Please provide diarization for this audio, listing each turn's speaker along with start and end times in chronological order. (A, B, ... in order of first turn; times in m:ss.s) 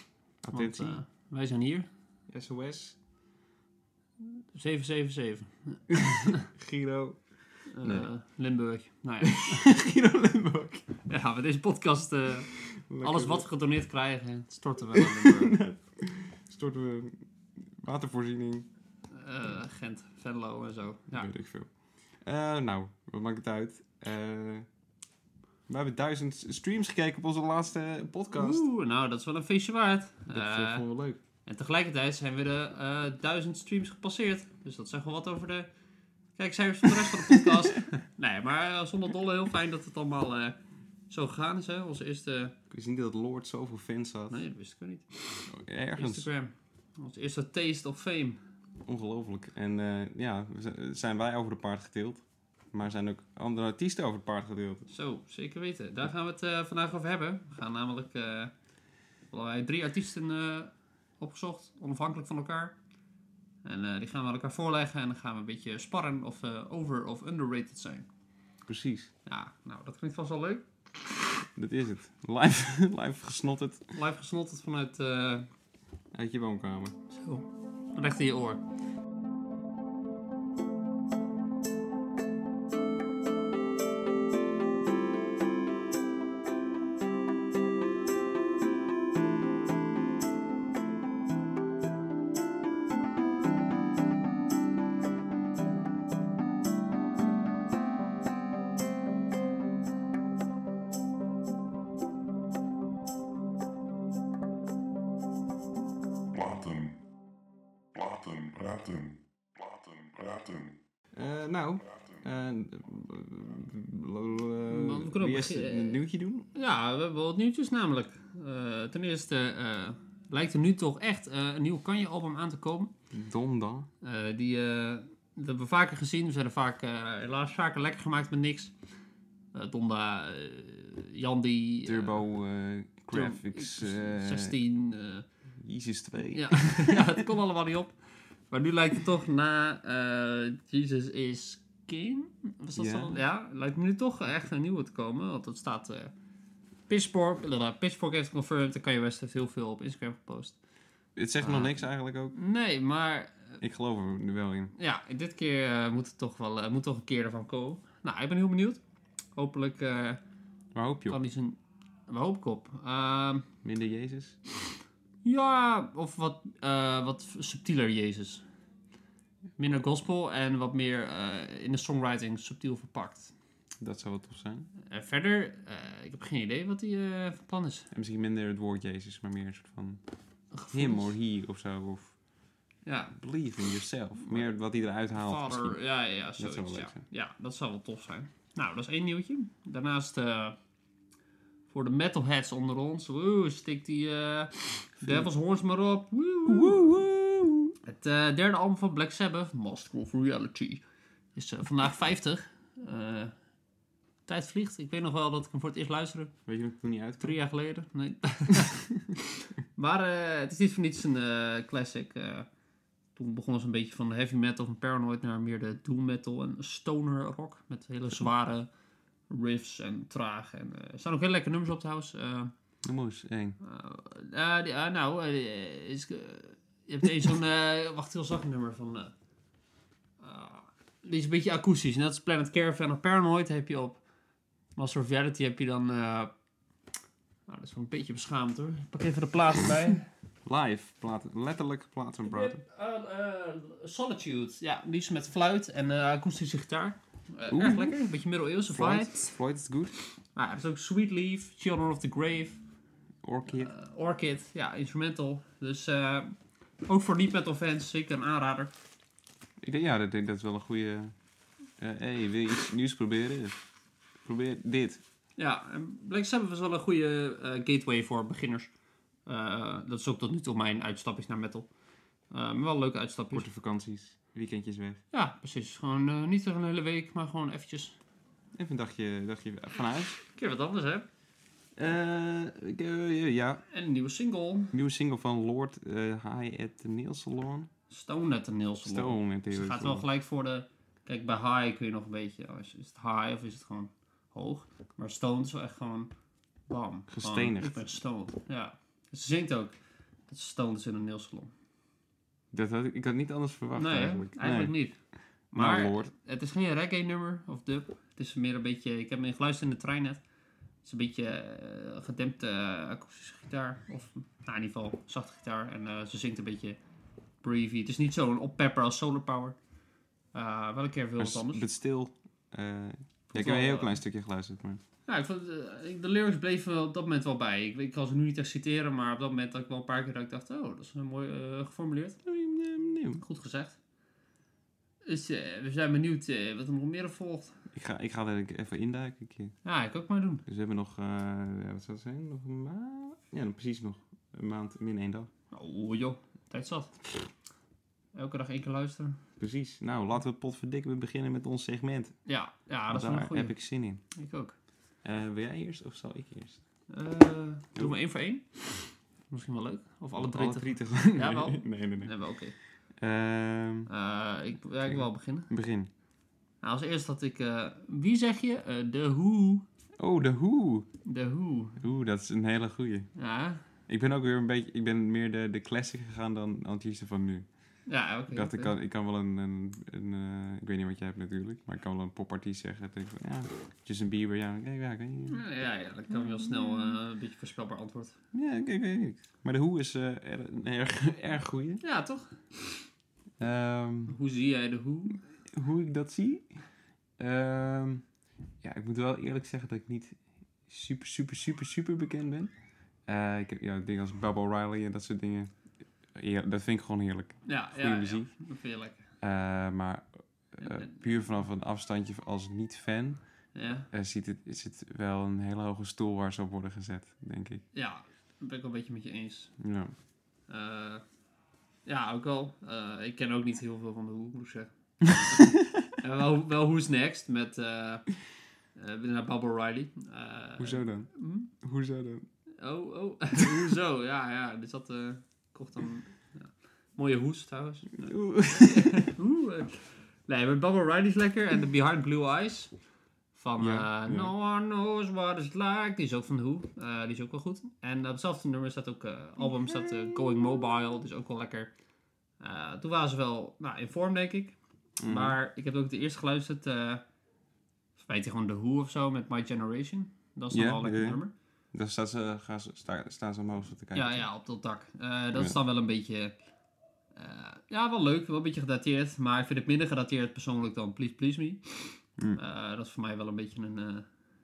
0:00.4-0:01.0 A
0:00.5-0:01.9 B
0:02.3-0:03.0 A
0:04.5-0:06.4 B
0:05.9-0:08.1 A
0:07.7-0:09.6 B
0:09.2-0:10.9 A
0:11.1-0:15.6 B
0:12.6-0:13.4 A
0:14.9-0:17.2 A
0:17.8-0:18.7 A
0:19.1-0:21.3 B
0:21.1-0:24.7 A
0:25.7-0:28.6 A
0:28.3-0:30.8 B
0:30.3-0:31.2 A
0:31.4-0:35.7 B
0:36.4-0:40.6 B
0:37.3-0:37.5 A
0:41.1-0:42.6 B
0:42.7-0:44.4 A
0:44.3-0:48.4 B
0:45.5-0:46.3 A
0:48.8-0:54.9 A
0:54.9-0:58.5 B
0:59.3-1:02.8 B
1:03.6-1:08.1 B
1:08.6-1:09.1 A
1:09.2-1:10.6 B
1:11.5-1:14.0 A
1:13.9-1:15.5 B
1:16.1-1:16.9 A
1:17.1-1:18.6 B
1:46.3-1:47.0 C
1:47.9-1:50.8 C
1:51.1-1:56.5 A
1:51.9-1:52.2 C
1:54.7-1:56.0 B
1:56.5-2:02.9 B
2:03.1-2:03.9 A
2:04.0-2:08.7 B
2:09.5-2:12.2 B
2:11.8-2:14.5 A
2:13.1-2:15.2 B
2:15.6-2:17.1 A
2:16.3-2:18.0 B
2:18.5-2:26.1 B
2:22.8-2:23.2 A
2:26.9-2:30.6 B
2:31.2-2:32.3 A
2:31.4-2:31.8 B
2:32.3-2:33.6 B
2:33.6-2:34.7 A
2:34.8-2:38.8 B
2:39.4-2:40.2 B
2:40.7-2:41.2 A
2:41.1-2:43.5 B
2:43.6-2:44.4 A
2:45.2-2:48.4 B
2:49.6-2:53.3 B
2:53.8-2:54.7 A
2:54.8-2:57.9 B
2:57.9-3:00.0 A
3:00.5-3:01.1 B
3:00.7-3:02.2 A
3:02.8-3:03.1 B
3:03.1-3:05.8 A
3:05.1-3:10.6 B
3:06.4-3:07.0 A
3:11.7-3:16.9 B
3:15.0-3:15.3 A
3:16.5-3:17.7 A
3:17.8-3:20.8 B
3:21.3-3:23.3 B
3:24.3-3:26.3 B
3:26.5-3:27.4 A
3:27.2-3:29.0 B
3:29.7-3:32.5 B
3:33.2-3:38.7 B
3:39.3-3:42.5 B
3:42.8-3:43.6 A
3:43.6-3:49.1 B
3:50.2-3:54.0 B
3:54.8-3:56.3 B
3:57.5-4:00.0 B
4:00.4-4:02.6 A
4:02.2-4:09.2 B
4:07.5-4:08.0 A
4:08.7-4:09.9 A
4:10.3-4:12.6 B
4:13.2-4:13.7 A
4:13.6-4:16.3 B
4:16.8-4:18.7 B
4:19.6-4:21.1 A
4:21.8-4:23.6 A
4:24.2-4:25.0 A
4:25.4-4:28.7 B
4:29.2-4:31.7 B
4:32.3-4:33.5 B
4:33.3-4:35.0 A
4:35.1-4:38.0 B
4:38.5-4:40.2 A
4:40.3-4:41.0 B
4:41.8-4:43.6 A
4:43.7-4:44.7 B
4:44.7-4:47.7 A
4:47.9-4:56.1 B
4:48.8-4:50.0 A
4:56.7-4:59.8 B
4:57.1-4:57.8 A
5:00.3-5:01.5 B
5:02.5-5:04.7 A
5:03.8-5:05.0 B
5:05.5-5:10.2 B
5:05.5-5:06.1 A
5:10.8-5:16.8 B
5:17.4-5:19.6 B
5:20.3-5:21.7 B
5:21.2-5:24.8 A
5:23.3-5:23.9 B
5:25.0-5:32.2 B
5:32.2-5:33.2 A
5:33.2-5:33.8 B
5:35.0-5:37.5 B
5:37.7-5:39.6 A
5:39.6-5:40.4 B
5:40.4-5:45.3 A
5:45.5-5:47.0 B
5:48.1-5:49.2 B
5:49.4-5:52.2 A
5:52.2-5:53.6 B
5:52.9-5:54.0 A
5:54.1-5:54.5 B
5:55.0-5:56.6 A
5:56.9-6:02.6 B
6:00.2-6:02.1 A
6:03.0-6:03.9 A
6:03.9-6:05.5 B
6:04.8-6:05.9 A
6:06.6-6:09.6 B
6:10.0-6:10.9 A
6:11.0-6:11.8 B
6:11.8-6:13.1 A
6:13.2-6:13.6 B
6:13.9-6:17.5 A
6:17.9-6:18.7 B
6:18.3-6:25.4 A
6:25.3-6:28.2 B
6:28.3-6:31.8 A
6:31.8-6:32.8 B
6:33.4-6:34.2 A
6:34.1-6:35.2 B
6:35.5-6:36.6 A
6:37.2-6:38.0 A
6:38.6-6:42.5 A
6:43.0-6:45.5 A
6:46.1-6:48.3 A
6:47.4-6:49.0 B
6:49.2-6:53.2 A
6:50.6-6:50.9 B
6:53.5-6:53.9 B
6:53.9-6:57.6 A
6:57.7-6:59.5 B
6:59.6-6:59.9 A
7:00.5-7:01.0 B
7:01.8-7:08.1 B
7:08.8-7:11.5 B
7:10.6-7:12.2 A
7:12.6-7:22.7 B
7:13.4-7:13.7 A
7:18.0-7:19.1 A
7:23.3-7:31.7 B
7:23.6-7:24.3 A
7:29.4-7:30.2 A
7:32.4-7:37.0 B
7:35.0-7:35.4 A
7:38.0-7:41.3 B
7:40.5-7:41.2 A
7:41.7-7:44.2 A
7:43.9-7:46.4 B
7:47.1-7:54.0 B